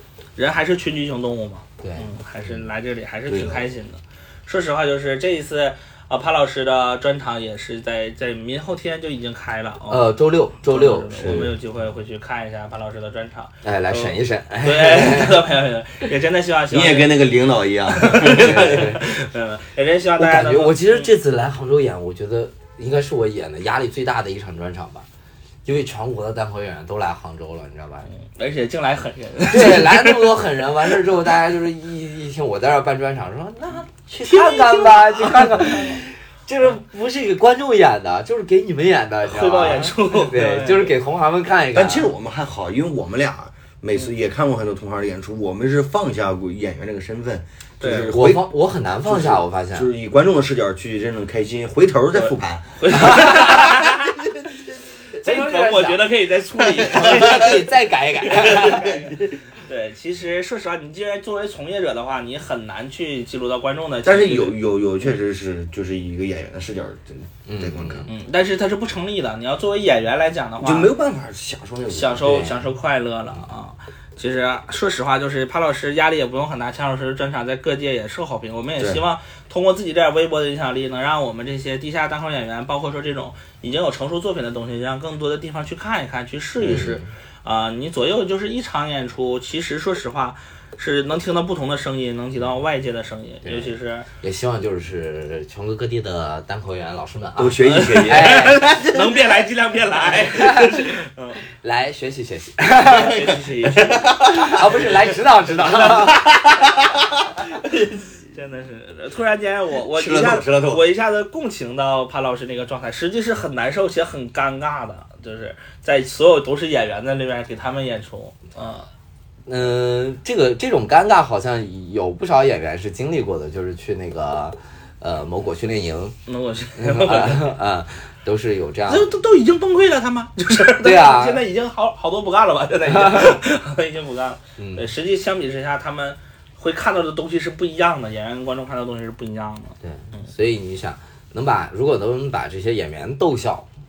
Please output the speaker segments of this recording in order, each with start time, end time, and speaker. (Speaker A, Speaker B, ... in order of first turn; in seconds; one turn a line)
Speaker A: 0.4-17.3
Speaker B: 1.8-2.1
Speaker C: 3.3-3.7
Speaker B: 9.9-11.6
Speaker C: 11.2-11.5
Speaker B: 13.6-15.5
Speaker C: 16.7-18.9
Speaker A: 17.9-21.1
Speaker B: 18.4-19.0
Speaker B: 20.2-25.1
Speaker B: 25.6-28.1
Speaker A: 28.1-30.4
Speaker B: 29.5-42.1
Speaker A: 34.2-36.0
Speaker A: 39.2-41.0
Speaker C: 41.7-48.5
Speaker A: 47.8-48.1
Speaker B: 48.1-49.9
Speaker C: 49.0-53.5
Speaker A: 52.1-54.2
Speaker B: 53.0-53.6
Speaker A: 55.2-57.6
Speaker B: 55.2-56.1
Speaker B: 56.9-59.1
Speaker A: 58.2-64.6
Speaker C: 64.0-68.1
Speaker B: 67.5-68.1
Speaker A: 68.1-70.9
Speaker C: 70.6-72.4
Speaker A: 71.9-94.1
Speaker B: 72.2-72.6
Speaker B: 86.7-87.0
Speaker B: 93.4-98.8
Speaker C: 97.4-98.7
Speaker A: 97.7-101.4
Speaker B: 100.3-100.9
Speaker B: 101.5-103.3
Speaker A: 102.8-104.6
Speaker C: 103.7-104.7
Speaker B: 104.1-106.3
Speaker A: 105.6-106.4
Speaker A: 107.6-118.9
Speaker C: 109.9-110.8
Speaker B: 119.5-126.2
Speaker A: 126.3-127.6
Speaker B: 126.8-129.1
Speaker A: 128.9-140.2
Speaker B: 130.8-131.4
Speaker B: 132.9-133.4
Speaker B: 134.6-134.9
Speaker B: 139.8-143.7